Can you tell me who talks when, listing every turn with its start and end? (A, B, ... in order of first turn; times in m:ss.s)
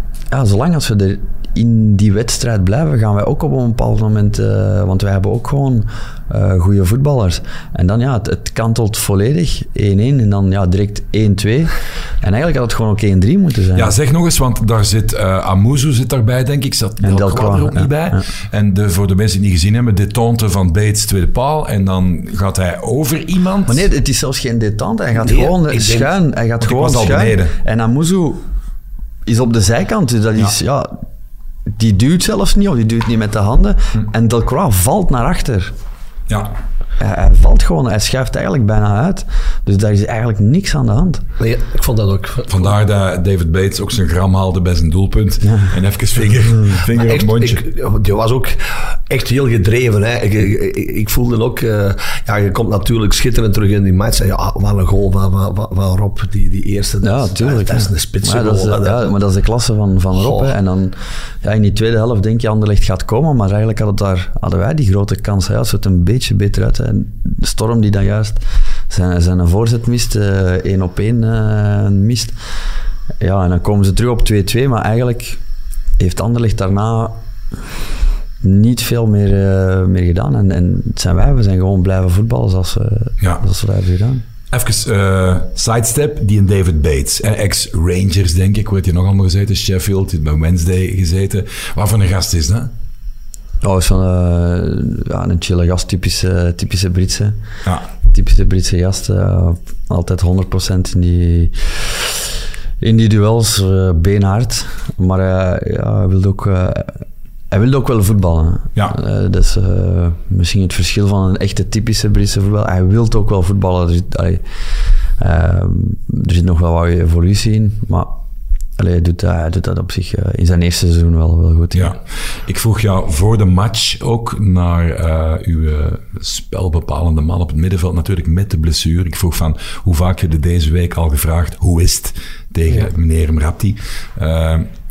0:00.3-0:13.9 A
0:13.7-0:23.8 B
0:17.0-0:18.2 A
0:23.7-0:28.4 A
0:25.1-0:26.1 C
0:26.6-0:27.5 B
0:29.2-0:31.0 A
0:31.7-0:35.7 A
0:36.3-0:36.5 B
0:37.0-0:41.2 A
0:41.4-0:42.7 C
0:42.5-0:47.6 B
0:45.4-0:45.8 A
0:46.9-0:59.1 C
0:57.0-1:12.4 A
1:00.2-1:00.5 C
1:13.2-1:15.4 A
1:16.0-1:17.2 A
1:18.4-1:24.2 A
1:24.5-1:32.7 B
1:33.6-1:37.4 A
1:38.0-1:54.4 A
1:55.2-1:58.1 A
1:58.8-2:01.9 A
2:01.7-2:14.7 B